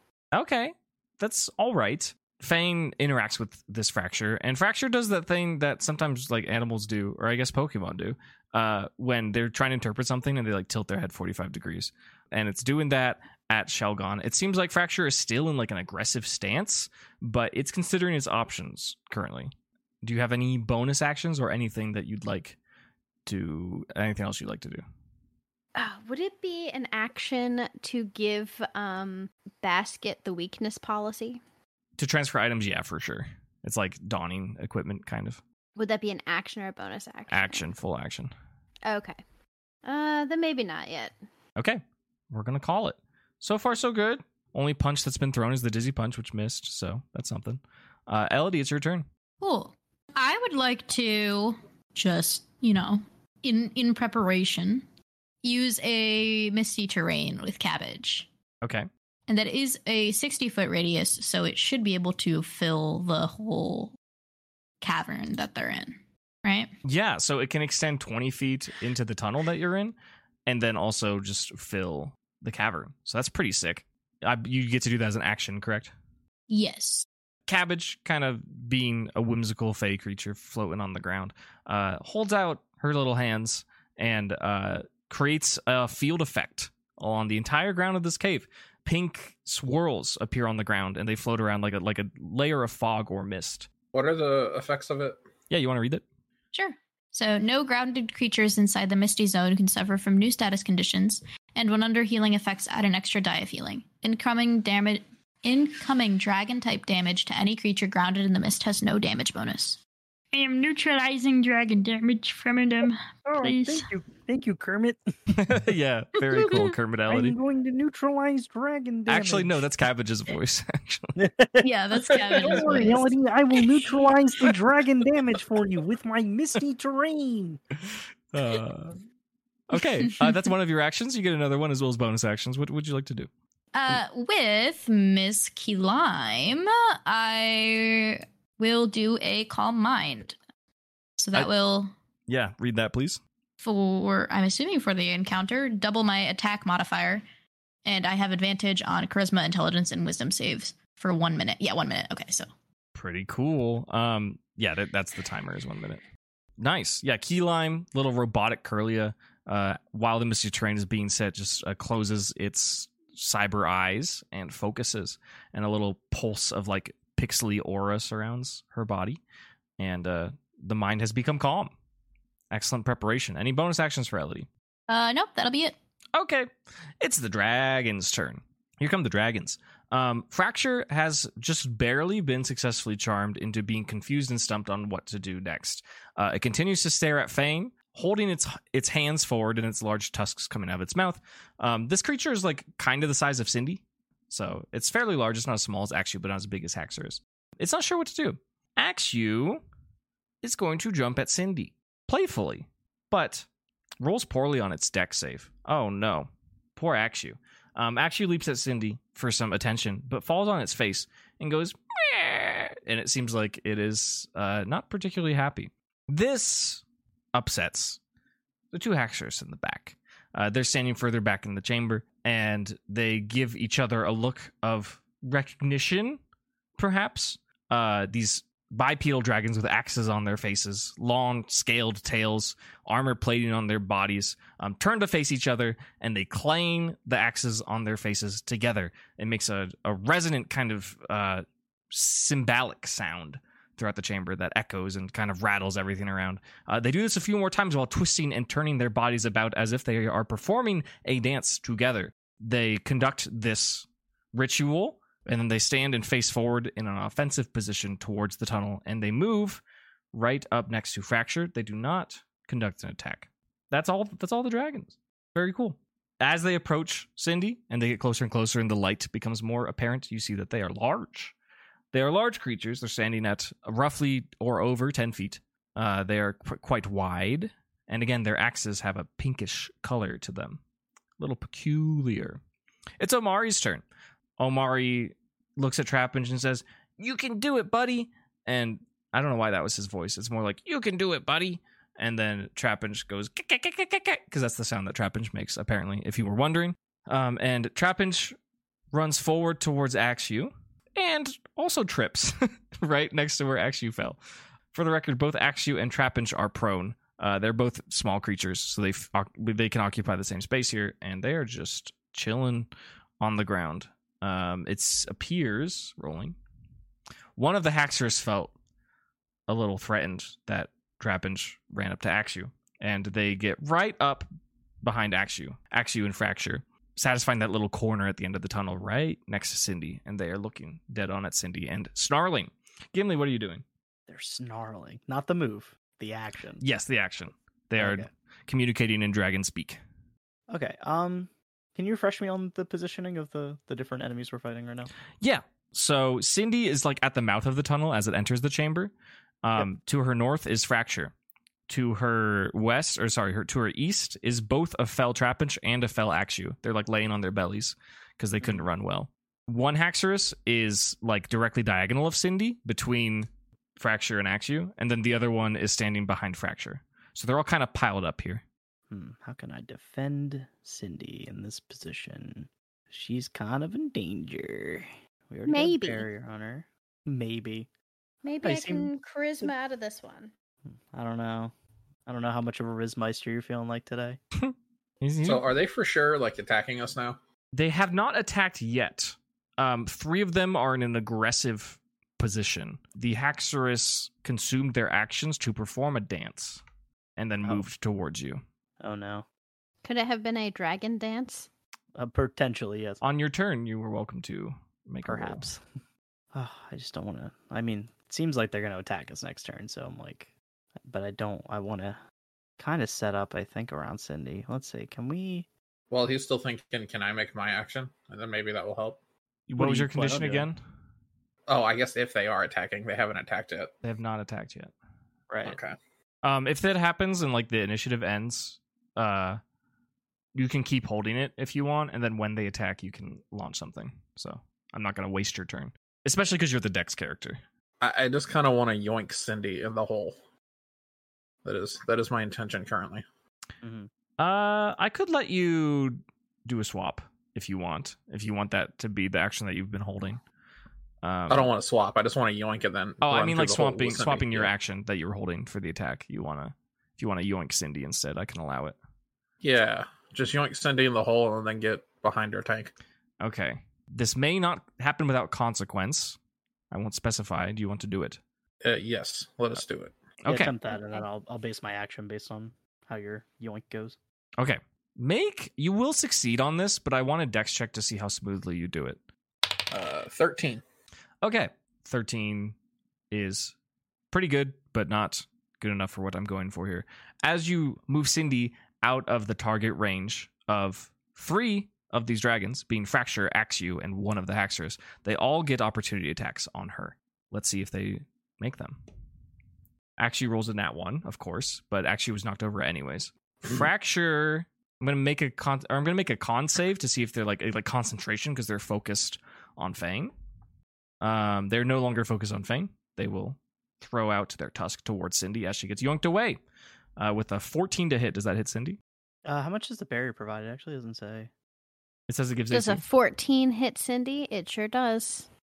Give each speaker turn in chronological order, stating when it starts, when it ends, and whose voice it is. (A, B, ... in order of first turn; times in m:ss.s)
0:00.3-0:19.5 A
0:20.0-0:22.6 A
0:23.3-0:24.8 A
0:25.8-0:31.4 B
0:32.0-0:35.4 A
0:35.8-0:37.7 B
0:37.3-0:38.3 A
0:38.8-0:39.2 B
0:39.8-0:41.1 B
0:41.6-0:49.1 A
0:49.4-0:54.9 C
0:55.4-0:58.3 C
0:58.6-0:58.9 A
0:59.3-1:04.0 C
1:04.8-1:06.7 C
1:06.8-1:10.0 A
1:10.5-1:15.9 A
1:16.5-1:17.1 C
1:17.5-1:33.7 A
1:33.9-1:35.2 D
1:35.5-1:36.0 A
1:36.5-1:49.8 C
1:50.3-1:53.9 C
1:53.3-1:55.4 E
1:55.3-1:57.4 A
1:56.4-1:56.7 C
1:57.1-1:59.7 E
1:59.1-2:01.2 A
2:01.2-2:07.6 E
2:01.6-2:03.8 C
2:07.9-2:09.0 A
2:09.7-2:13.3 A
2:10.0-2:10.4 C
2:13.7-2:20.4 C
2:21.2-2:21.9 C
2:22.3-2:23.2 A
2:23.6-2:27.2 C
2:27.8-2:32.5 C
2:33.0-2:36.0 A
2:36.6-2:49.2 A
2:49.8-2:51.7 A
2:52.5-2:54.5 A
2:54.9-2:55.8 C
2:56.2-2:56.5 A
2:57.0-3:19.6 A
3:20.4-3:23.5 A
3:24.0-3:36.8 A
3:37.3-3:38.0 A
3:38.7-3:46.2 A
3:46.8-4:19.6 A
4:20.1-4:31.4 A
4:31.9-4:40.6 A
4:41.2-4:42.4 A
4:43.0-4:43.8 A
4:44.4-4:58.4 A
4:58.9-5:04.2 A
5:04.7-5:16.4 A
5:17.4-5:18.5 A
5:19.5-5:24.3 A
5:24.8-5:33.6 A
5:34.1-5:36.6 E
5:36.6-5:39.8 A
5:37.8-5:38.1 E
5:40.5-5:44.9 E
5:45.2-5:48.9 A
5:49.4-5:51.1 A
5:51.7-6:08.4 A
5:58.4-5:58.7 E
6:08.9-6:17.7 E
6:15.5-6:16.1 B
6:18.2-6:20.3 B
6:18.4-6:18.9 E
6:20.9-6:21.5 E
6:22.1-6:24.2 E
6:24.4-6:25.5 A
6:25.2-6:27.2 D
6:27.5-6:36.6 A
6:37.2-6:38.4 A
6:38.8-6:39.3 E
6:39.8-6:41.5 B
6:42.0-6:43.0 E
6:43.0-6:45.5 A
6:45.1-6:45.6 E
6:46.3-6:50.3 E
6:50.9-6:52.0 E
6:52.6-6:55.5 E
6:55.9-6:59.0 D
6:59.5-7:00.6 A
6:59.6-7:00.5 E
7:01.5-7:03.7 D
7:03.8-7:04.7 A
7:05.3-7:05.6 E
7:05.4-7:05.8 D
7:06.2-7:09.4 A
7:10.4-7:17.4 A
7:17.8-7:20.2 D
7:21.4-7:23.0 D
7:23.6-7:23.9 E
7:24.2-7:30.2 A
7:31.0-7:31.5 A
7:31.3-7:34.5 D
7:33.0-7:38.8 A
7:39.4-7:42.7 D
7:43.2-7:46.2 A
7:46.7-7:48.2 A
7:48.6-7:49.9 D
7:50.2-7:50.5 A
7:50.3-7:54.0 E
7:50.7-7:51.0 B
7:54.4-7:59.0 A
7:59.7-8:00.6 D
8:01.2-8:02.6 A
8:03.1-8:03.5 A
8:04.1-8:18.8 A
8:20.0-8:30.1 A
8:31.0-8:36.4 A
8:37.0-8:38.8 A
8:39.3-8:41.3 E
8:42.1-8:42.8 A
8:42.5-8:45.3 B